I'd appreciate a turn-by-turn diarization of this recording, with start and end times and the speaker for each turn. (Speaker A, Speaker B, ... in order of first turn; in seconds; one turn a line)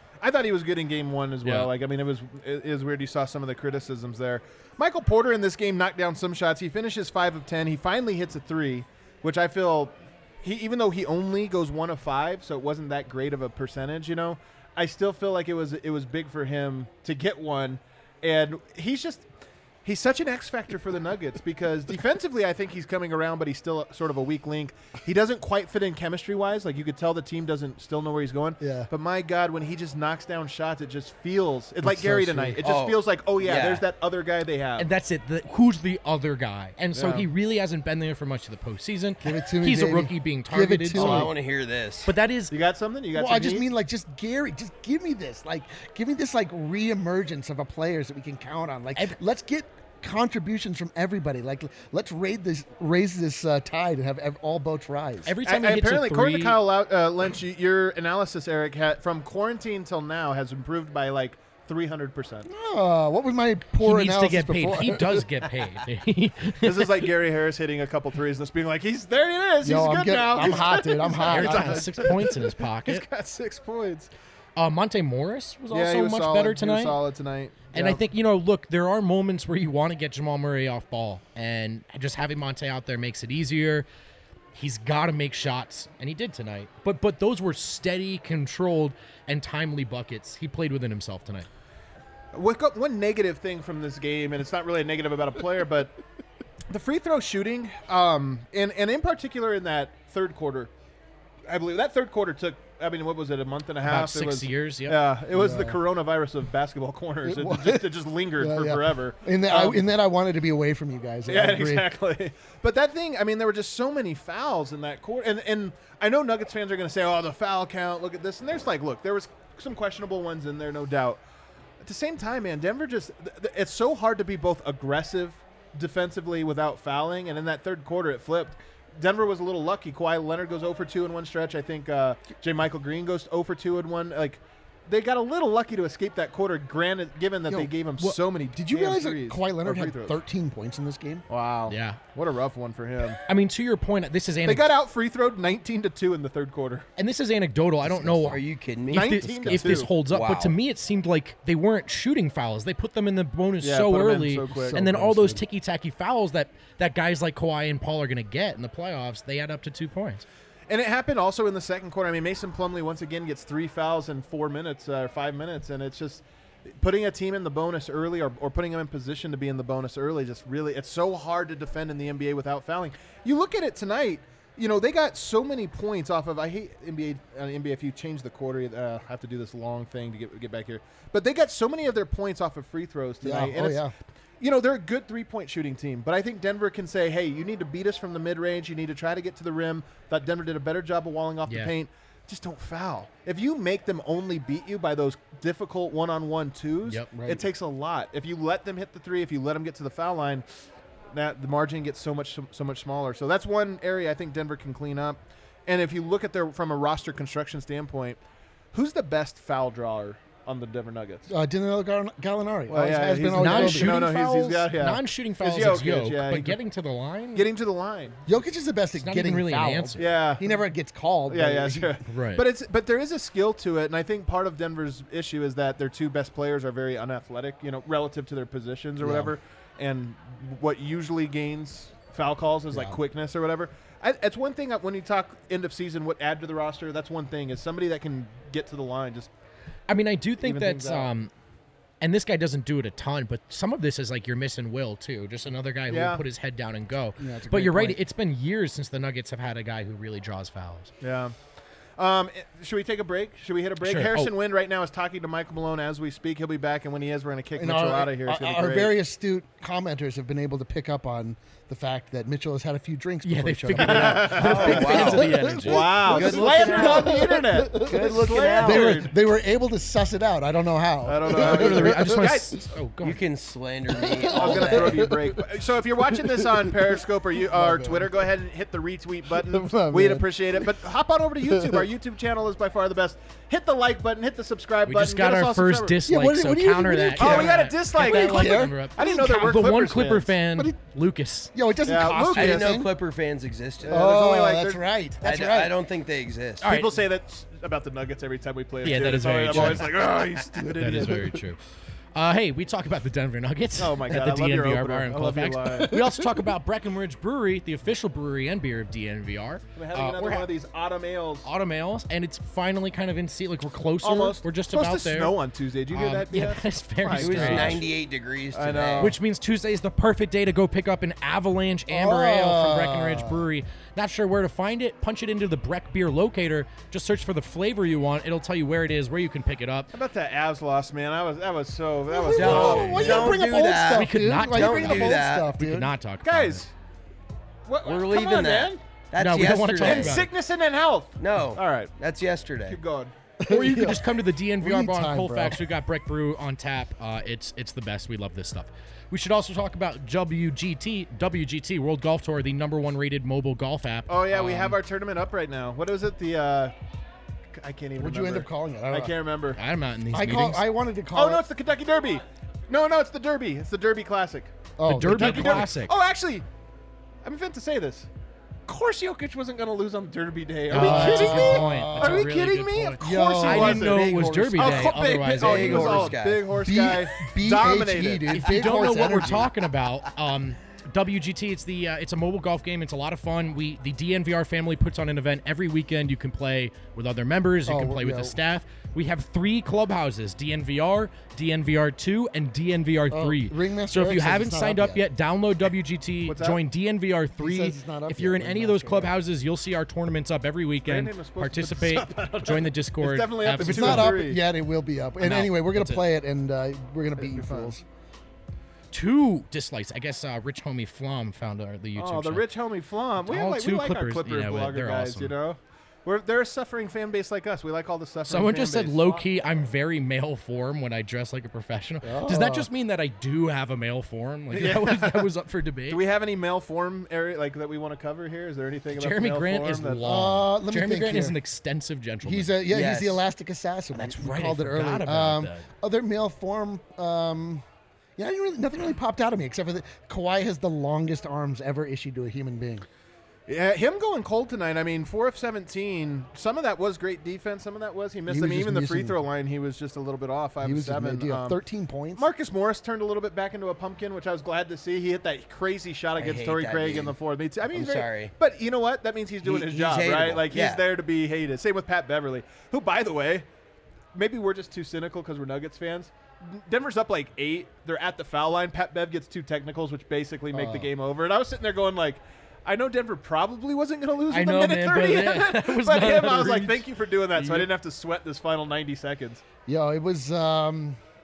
Speaker A: 0.2-19.3
Speaker B: 1.4-1.7
Speaker A: 19.8-34.9
Speaker C: 28.6-28.9
Speaker C: 31.8-32.6
Speaker D: 32.6-33.9
Speaker B: 34.8-41.3
Speaker A: 37.0-37.3
Speaker C: 39.2-41.3
Speaker D: 41.0-42.1
Speaker B: 42.1-42.5
Speaker A: 42.5-43.7
Speaker C: 43.1-55.3
Speaker B: 55.2-56.6
Speaker A: 55.4-62.5
Speaker C: 62.5-65.3
Speaker B: 63.8-67.1
Speaker A: 66.6-74.1
Speaker C: 69.6-72.2
Speaker B: 71.2-73.0
Speaker B: 74.6-77.0
Speaker A: 75.7-78.0
Speaker B: 77.7-83.9
Speaker B: 84.5-91.5
Speaker A: 92.3-96.0
Speaker A: 96.7-100.7
Speaker A: 101.5-109.8
Speaker B: 103.8-105.0
Speaker C: 105.3-105.8
Speaker C: 107.2-111.9
Speaker A: 111.3-121.2
Speaker A: 121.8-140.2
Speaker C: 137.5-141.2
Speaker A: 141.3-143.2
Speaker B: 141.7-142.0
Speaker B: 143.3-144.7
Speaker A: 144.4-146.9
Speaker B: 147.0-160.3
Speaker C: 147.8-148.4
Speaker D: 148.3-150.6
Speaker A: 148.9-149.9
Speaker C: 149.3-149.7
Speaker A: 153.6-154.8
Speaker C: 154.5-155.4
Speaker A: 160.7-166.2
Speaker A: 166.8-183.9
Speaker C: 183.2-183.9
Speaker A: 184.4-200.4
Speaker B: 191.5-191.7
Speaker C: 197.1-197.5
Speaker A: 201.1-208.2
Speaker A: 208.7-211.3
Speaker C: 211.3-214.2
Speaker A: 212.7-216.6
Speaker B: 213.3-217.5
Speaker A: 217.3-218.2
Speaker C: 218.3-222.0
Speaker B: 219.0-220.1
Speaker A: 220.0-220.6
Speaker A: 221.3-239.3
Speaker B: 222.1-222.5
Speaker C: 229.0-229.3
Speaker C: 232.7-233.0
Speaker B: 239.9-241.3
Speaker A: 240.4-241.1
Speaker B: 242.0-250.9
Speaker A: 245.9-246.2
Speaker C: 247.2-248.0
Speaker A: 251.0-251.3
Speaker A: 252.0-258.9
Speaker B: 253.8-254.3
Speaker C: 257.6-272.3
Speaker B: 263.2-266.3
Speaker A: 263.8-269.1
Speaker D: 264.3-265.5
Speaker D: 266.1-269.1
Speaker A: 271.1-272.6
Speaker B: 271.3-273.2
Speaker D: 273.0-275.1
Speaker C: 273.9-275.5
Speaker A: 274.3-286.0
Speaker C: 276.1-278.3
Speaker C: 279.3-280.9
Speaker C: 281.4-281.9
Speaker B: 284.9-291.5
Speaker C: 286.1-289.9
Speaker A: 287.2-290.3
Speaker D: 287.2-287.5
Speaker C: 291.5-292.9
Speaker A: 291.9-292.8
Speaker D: 292.3-294.1
Speaker A: 293.8-294.8
Speaker C: 293.9-295.8
Speaker D: 295.2-296.7
Speaker B: 296.6-296.9
Speaker A: 296.6-301.4
Speaker B: 298.8-301.6
Speaker C: 299.6-299.8
Speaker C: 300.6-301.4
Speaker B: 302.1-310.5
Speaker A: 303.8-306.0
Speaker C: 305.8-306.5
Speaker A: 309.8-311.5
Speaker B: 311.4-315.4
Speaker A: 314.0-317.9
Speaker B: 315.9-317.8
Speaker D: 317.1-319.1
Speaker A: 318.5-319.2
Speaker B: 319.0-329.9
Speaker C: 321.9-323.5
Speaker A: 329.9-333.3
Speaker C: 332.1-335.9
Speaker D: 332.3-335.5
Speaker B: 332.4-333.3
Speaker B: 333.9-336.6
Speaker A: 336.2-336.7
Speaker A: 337.7-338.8
Speaker D: 337.9-340.3
Speaker B: 339.2-340.3
Speaker A: 339.8-341.9
Speaker D: 341.2-342.8
Speaker A: 342.7-343.1
Speaker C: 343.4-345.6
Speaker B: 343.5-354.8
Speaker A: 354.1-356.7
Speaker A: 357.6-359.6
Speaker C: 358.0-359.1
Speaker B: 359.6-360.7
Speaker C: 360.1-361.4
Speaker A: 361.1-366.4
Speaker C: 364.8-365.7
Speaker B: 364.9-365.9
Speaker A: 367.2-368.1
Speaker A: 368.7-379.2
Speaker C: 370.7-372.3
Speaker B: 370.7-376.1
Speaker C: 373.0-374.6
Speaker D: 373.9-376.6
Speaker C: 376.5-379.5
Speaker B: 378.3-404.3
Speaker C: 387.7-388.4
Speaker C: 393.1-395.1
Speaker A: 396.3-396.6
Speaker C: 397.4-399.2
Speaker A: 400.8-404.4
Speaker C: 403.6-407.8
Speaker B: 405.2-406.0
Speaker A: 407.2-407.7
Speaker B: 408.9-412.5
Speaker A: 412.0-419.7
Speaker B: 413.2-415.3
Speaker B: 418.3-426.0
Speaker C: 422.0-422.7
Speaker A: 424.5-425.3
Speaker A: 425.9-430.2
Speaker B: 429.0-432.7
Speaker C: 430.0-431.4
Speaker C: 432.2-437.6
Speaker D: 432.7-433.2
Speaker B: 434.0-435.7
Speaker C: 438.2-442.9
Speaker A: 443.5-451.6
Speaker C: 448.3-449.2
Speaker C: 450.6-452.3
Speaker A: 452.2-463.5
Speaker D: 456.2-457.2
Speaker D: 457.7-458.3
Speaker D: 459.4-460.8
Speaker A: 464.1-479.4
Speaker C: 470.5-470.9
Speaker B: 474.3-477.7
Speaker C: 479.7-481.0